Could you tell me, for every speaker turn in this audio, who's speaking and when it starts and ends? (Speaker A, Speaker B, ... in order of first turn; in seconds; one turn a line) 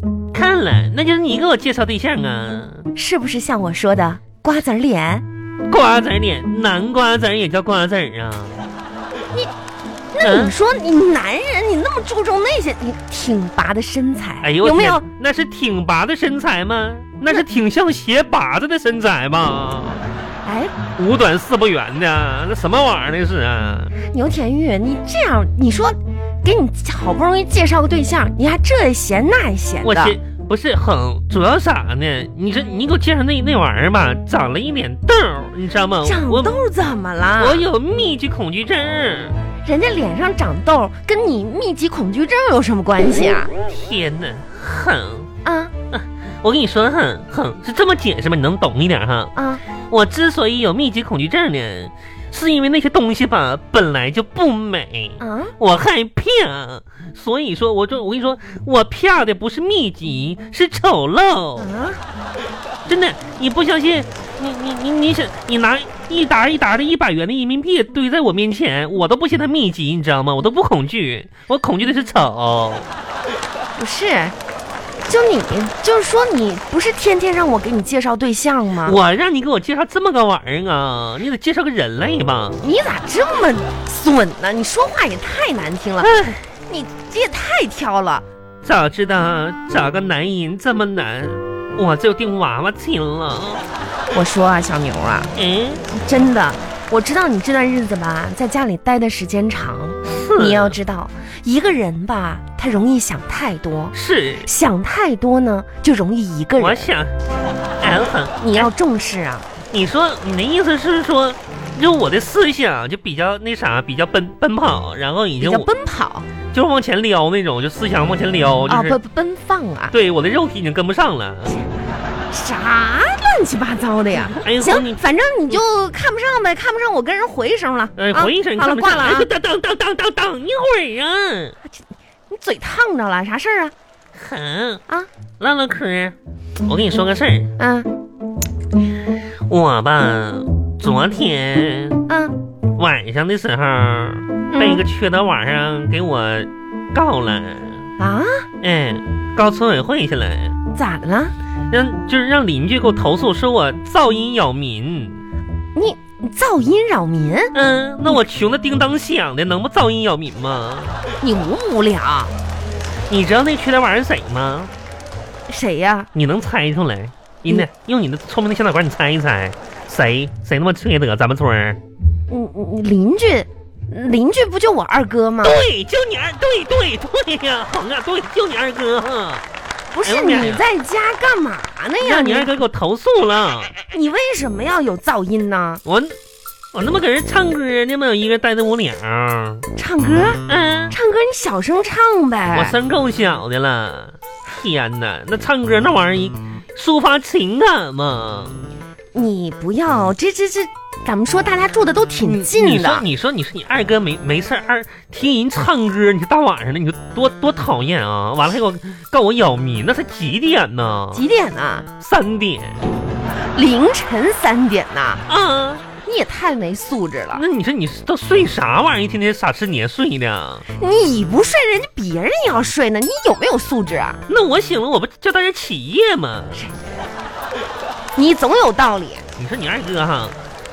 Speaker A: 0.3-2.9
Speaker B: 3.0-5.2
Speaker A: 5.7-8.6
Speaker B: 10.1-15.1
Speaker A: 10.2-10.6
Speaker A: 14.4-20.0
Speaker B: 20.4-20.8
Speaker A: 21.0-23.9
Speaker B: 24.0-30.2
Speaker A: 29.8-36.5
Speaker B: 36.0-37.6
Speaker A: 37.4-39.4
Speaker B: 39.6-43.5
Speaker A: 43.6-45.3
Speaker B: 45.5-45.7
Speaker A: 45.9-49.3
Speaker B: 49.4-49.6
Speaker A: 49.9-61.7
Speaker B: 55.2-55.5
Speaker B: 61.6-62.0
Speaker A: 62.9-72.9
Speaker B: 73.8-74.3
Speaker B: 75.1-79.0
Speaker A: 78.8-82.6
Speaker B: 82.6-86.1
Speaker A: 86.0-86.5
Speaker B: 86.7-88.2
Speaker A: 88.6-93.7
Speaker B: 94.1-95.3
Speaker A: 95.3-95.8
Speaker B: 95.9-106.9
Speaker A: 100.0-100.8
Speaker A: 103.9-104.5
Speaker A: 106.6-107.1
Speaker A: 107.8-108.7
Speaker B: 108.4-109.5
Speaker A: 109.7-115.7
Speaker B: 115.4-116.3
Speaker A: 116.5-119.0
Speaker B: 118.7-119.9
Speaker A: 119.9-121.6
Speaker B: 122.3-129.3
Speaker A: 124.3-125.0
Speaker A: 128.0-131.6
Speaker B: 131.6-133.7
Speaker A: 134.2-134.8
Speaker A: 135.4-137.5
Speaker B: 137.6-137.9
Speaker A: 139.5-142.0
Speaker B: 142.1-142.3
Speaker A: 142.8-147.8
Speaker B: 144.5-144.8
Speaker B: 148.0-148.4
Speaker A: 148.6-150.6
Speaker B: 150.7-151.3
Speaker A: 151.7-155.2
Speaker B: 155.8-157.5
Speaker A: 157.5-161.0
Speaker B: 161.2-162.3
Speaker A: 163.1-164.7
Speaker B: 165.5-166.1
Speaker A: 166.1-171.8
Speaker B: 172.3-175.7
Speaker A: 175.4-179.4
Speaker B: 179.9-182.6
Speaker A: 180.0-180.7
Speaker A: 182.0-183.8
Speaker B: 183.9-185.8
Speaker A: 185.8-186.2
Speaker A: 186.7-189.7
Speaker B: 189.8-192.8
Speaker A: 190.5-190.9
Speaker A: 192.5-198.6
Speaker B: 199.1-203.1
Speaker A: 202.2-211.2
Speaker B: 211.1-211.9
Speaker A: 212.0-212.8
Speaker B: 213.6-215.2
Speaker A: 215.3-215.8
Speaker B: 216.0-217.4
Speaker A: 217.3-220.7
Speaker B: 220.8-224.2
Speaker A: 224.3-226.6
Speaker B: 228.2-229.2
Speaker A: 229.4-230.4